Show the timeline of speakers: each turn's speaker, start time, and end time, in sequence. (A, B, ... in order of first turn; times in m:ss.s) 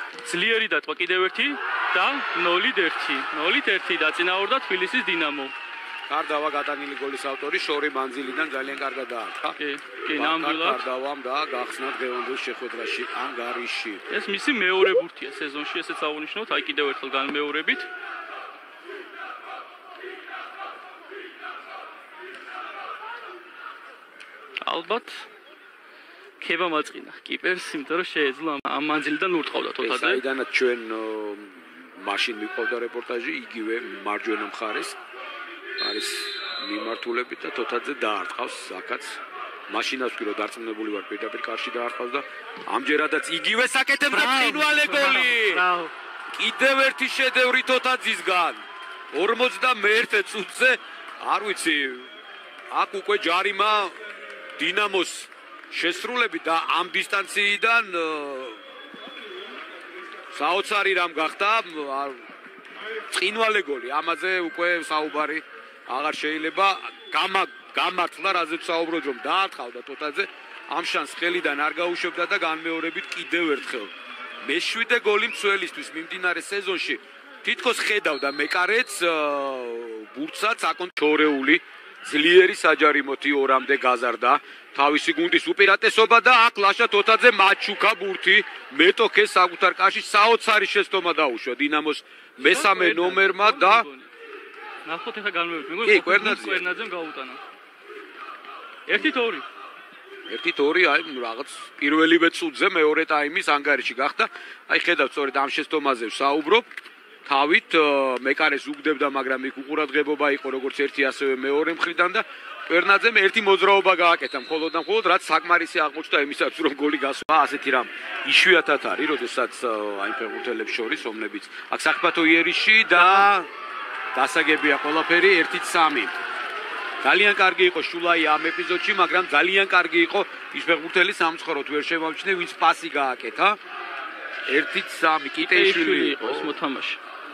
0:00.2-0:05.5 A
0:06.1-0:09.6 B
0:09.6-0:10.8 A
0:10.1-0:14.0 B
0:14.1-0:17.9 A
0:24.6-0:25.3 A
0:26.4-0:30.2 A
0:29.8-0:35.0 B
0:35.8-0:45.7 B
0:45.4-0:45.9 A
0:46.3-0:48.6 B
0:49.1-0:52.1 B
0:52.7-0:54.0 B
0:54.6-0:58.6 B
1:00.3-1:02.2 B
1:03.1-1:13.9 B
1:14.4-1:33.9 B
1:32.4-1:34.1 A
1:34.8-1:37.4 A
1:35.8-1:36.7 B
1:38.9-1:39.4 A
1:40.3-1:46.7 B
1:47.2-2:03.5 B
2:04.1-2:06.1 B
2:07.0-2:13.6 B
2:14.5-2:16.6 B
2:15.4-2:17.0 A